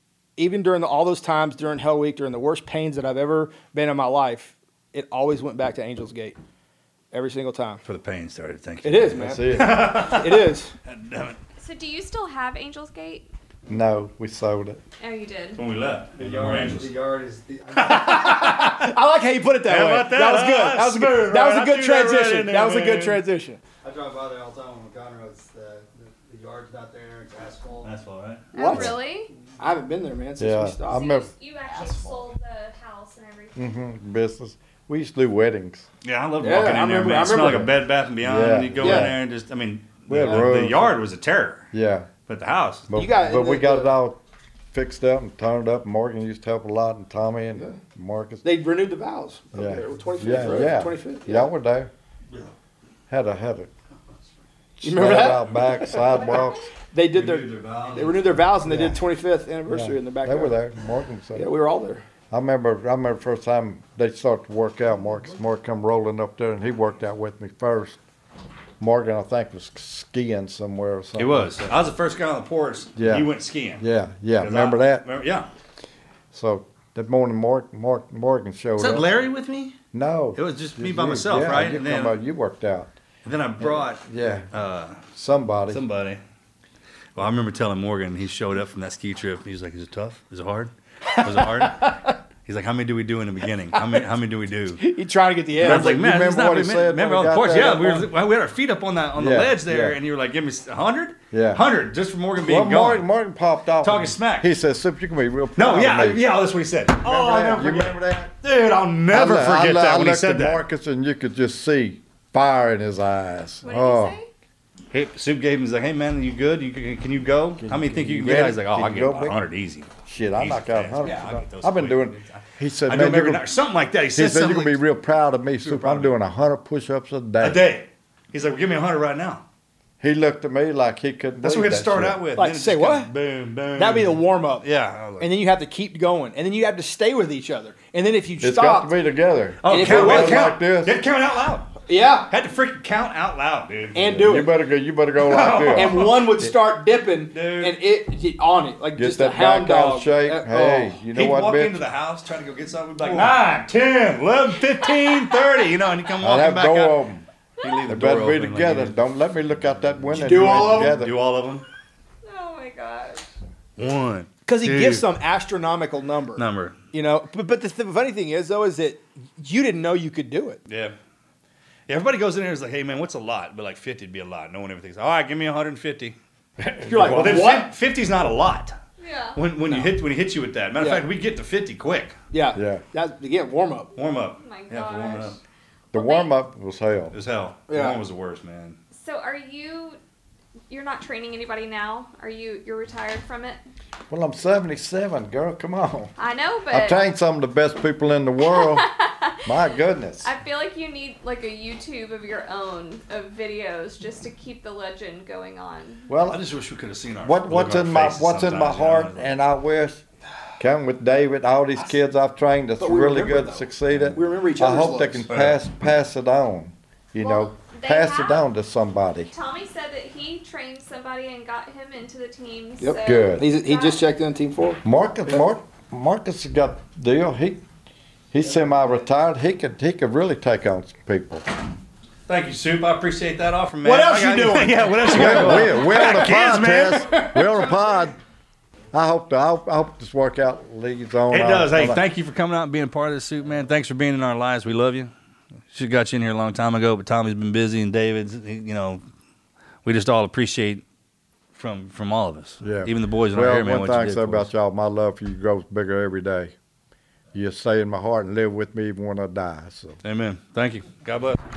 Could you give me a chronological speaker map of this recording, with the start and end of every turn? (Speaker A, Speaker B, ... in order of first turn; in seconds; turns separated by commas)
Speaker A: 0.4-6.4, Speaker A: 7.1-7.8, Speaker B: 7.8-11.4, Speaker A: 8.8-10.7, Speaker C: 9.1-10.1, Speaker D: 11.6-13.3, Speaker C: 13.7-14.8, Speaker D: 15.0-15.6, Speaker B: 15.6-16.9, Speaker E: 16.1-18.5, Speaker A: 17.8-23.6, Speaker B: 19.6-23.2, Speaker E: 23.8-27.9, Speaker B: 27.8-28.4, Speaker D: 28.5-29.3, Speaker A: 28.6-29.0, Speaker A: 29.6-31.2, Speaker C: 30.4-31.3, Speaker D: 30.9-33.6, Speaker A: 31.7-32.0, Speaker C: 33.6-35.9, Speaker B: 36.0-41.7, Speaker A: 36.4-37.7, Speaker C: 38.2-39.1, Speaker A: 38.8-39.1, Speaker C: 40.1-41.0, Speaker C: 41.7-42.1, Speaker B: 42.3-42.9, Speaker C: 42.9-44.2, Speaker A: 42.9-43.9, Speaker C: 44.7-48.4, Speaker A: 48.4-51.5, Speaker C: 49.5-51.9, Speaker C: 53.1-53.7, Speaker C: 54.8-56.7, Speaker A: 54.8-60.6, Speaker B: 57.1-58.1, Speaker C: 58.6-59.0, Speaker C: 59.7-61.5, Speaker A: 61.3-62.0, Speaker C: 62.3-68.0, Speaker C: 68.8-71.8, Speaker B: 71.2-73.8, Speaker C: 73.0-75.1, Speaker B: 74.4-75.5, Speaker C: 76.3-79.1, Speaker B: 78.8-79.7, Speaker E: 78.8-79.7, Speaker C: 79.9-82.9, Speaker B: 80.3-82.2, Speaker B: 83.2-85.1, Speaker C: 83.6-84.5, Speaker C: 85.1-85.8, Speaker B: 85.7-86.2, Speaker B: 87.2-94.8, Speaker A: 91.2-92.1, Speaker A: 94.8-95.9, Speaker B: 95.6-103.1, Speaker C: 95.6-98.1, Speaker E: 95.7-96.5, Speaker C: 99.2-100.0, Speaker C: 101.3-101.6, Speaker C: 102.4-106.3, Speaker B: 103.8-104.5, Speaker B: 105.6-110.6, Speaker C: 107.0-108.3, Speaker C: 109.1-114.2, Speaker D: 113.6-114.3, Speaker B: 114.9-124.8, Speaker C: 117.6-119.4, Speaker C: 120.0-123.5, Speaker C: 124.1-127.6, Speaker B: 125.6-126.1, Speaker B: 127.4-129.4, Speaker C: 130.0-132.2, Speaker B: 131.4-135.3, Speaker A: 132.3-133.1, Speaker A: 133.8-134.7, Speaker A: 135.2-138.9, Speaker C: 138.4-141.0, Speaker B: 139.6-141.8, Speaker A: 139.7-140.6, Speaker A: 141.8-142.3, Speaker B: 142.3-144.0, Speaker A: 143.9-144.5, Speaker C: 144.0-146.5, Speaker B: 145.2-146.2, Speaker A: 145.7-150.9, Speaker B: 147.3-147.7, Speaker C: 148.9-151.8, Speaker B: 151.0-157.0, Speaker A: 153.0-153.3, Speaker C: 156.2-157.2, Speaker B: 157.6-158.9, Speaker C: 157.8-161.2, Speaker A: 160.1-161.1, Speaker B: 160.5-161.6, Speaker D: 162.2-163.3, Speaker B: 163.8-165.1, Speaker A: 164.4-170.6, Speaker B: 166.4-166.8, Speaker B: 170.7-170.9, Speaker B: 171.9-176.2, Speaker B: 176.8-178.8, Speaker C: 176.8-177.1, Speaker A: 176.8-177.7, Speaker D: 179.0-179.4, Speaker B: 179.3-182.2, Speaker A: 180.8-181.0, Speaker A: 182.3-183.9, Speaker C: 182.5-182.8, Speaker B: 184.0-185.4, Speaker D: 184.4-185.4, Speaker D: 185.9-186.3, Speaker C: 185.9-187.2, Speaker B: 187.1-188.8, Speaker A: 187.7-188.0, Speaker D: 188.9-190.0, Speaker D: 190.7-193.6, Speaker C: 194.1-196.1, Speaker D: 196.2-197.0, Speaker C: 196.7-198.9, Speaker D: 198.4-199.7, Speaker C: 199.4-200.3, Speaker D: 200.2-206.1, Speaker C: 206.1-206.4, Speaker B: 206.2-209.3, Speaker C: 207.2-210.0, Speaker C: 210.6-219.3, Speaker A: 212.8-215.2, Speaker B: 215.3-215.6, Speaker D: 217.2-218.5, Speaker D: 219.3-224.0, Speaker A: 222.8-225.4, Speaker C: 223.0-223.4, Speaker C: 224.8-227.6, Speaker C: 228.3-231.4, Speaker B: 232.3-237.2, Speaker A: 233.8-235.7, Speaker C: 235.1-238.2, Speaker C: 238.9-242.0, Speaker B: 241.3-245.1, Speaker B: 245.7-249.0, Speaker B: 249.8-250.8, Speaker B: 251.5-254.5, Speaker C: 252.6-256.5, Speaker C: 257.3-260.0, Speaker B: 260.0-261.4